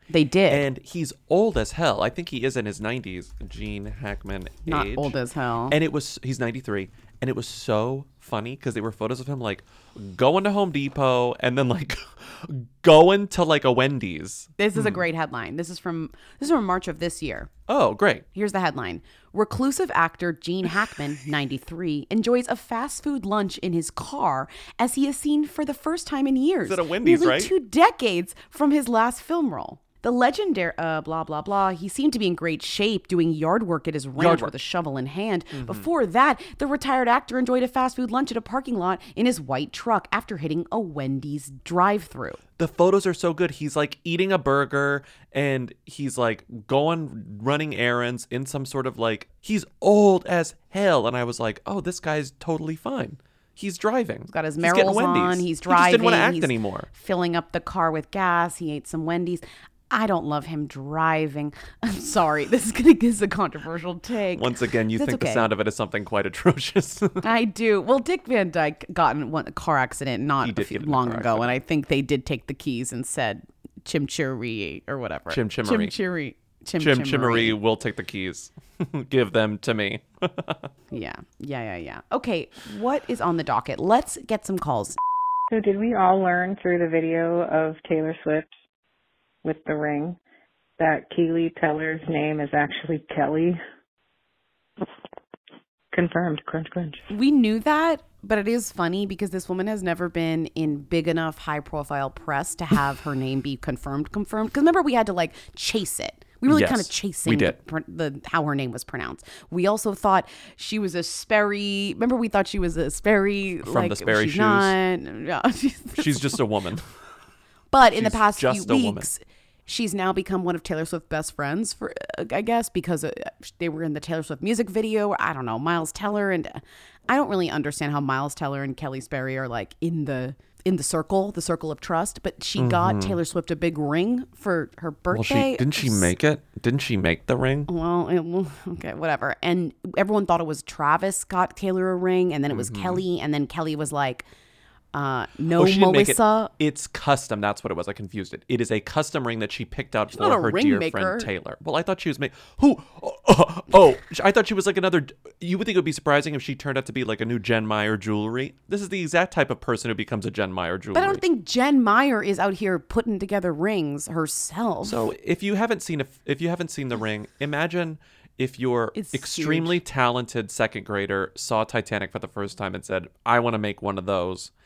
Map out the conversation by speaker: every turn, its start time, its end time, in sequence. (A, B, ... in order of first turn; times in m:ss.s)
0:00.1-0:00.7 A
0:00.5-0:05.1 B
0:04.7-0:05.8 A
0:05.7-0:15.0 B
0:14.6-0:17.5 A
0:17.7-0:18.2 B
0:18.3-0:42.4 A
0:26.7-0:27.5 B
0:34.2-0:34.5 B
0:35.5-0:35.9 B
0:42.6-0:56.9 B
0:54.3-1:05.5 A
1:04.4-1:07.2 B
1:07.2-1:17.6 A
1:10.4-1:11.5 B
1:15.3-1:15.9 B
1:16.8-1:20.7 B
1:20.9-1:25.0 A
1:25.5-1:28.6 C
1:29.4-1:30.2 C
1:30.8-1:33.6 C
1:35.9-1:37.0 C
1:37.1-1:56.4 A
1:46.5-1:47.6 B
1:53.6-1:54.8 B
1:56.0-1:56.9 B
1:57.7-2:16.1 A
1:57.9-1:59.1 B
2:12.6-2:13.2 B
2:15.1-2:17.7 B
2:17.7-2:24.3 A
2:22.5-2:23.0 B
2:24.9-2:26.5 A
2:25.6-2:41.2 B
2:30.1-2:31.3 A
2:40.9-2:45.0 A
2:44.8-2:54.5 B
2:48.9-2:49.8 A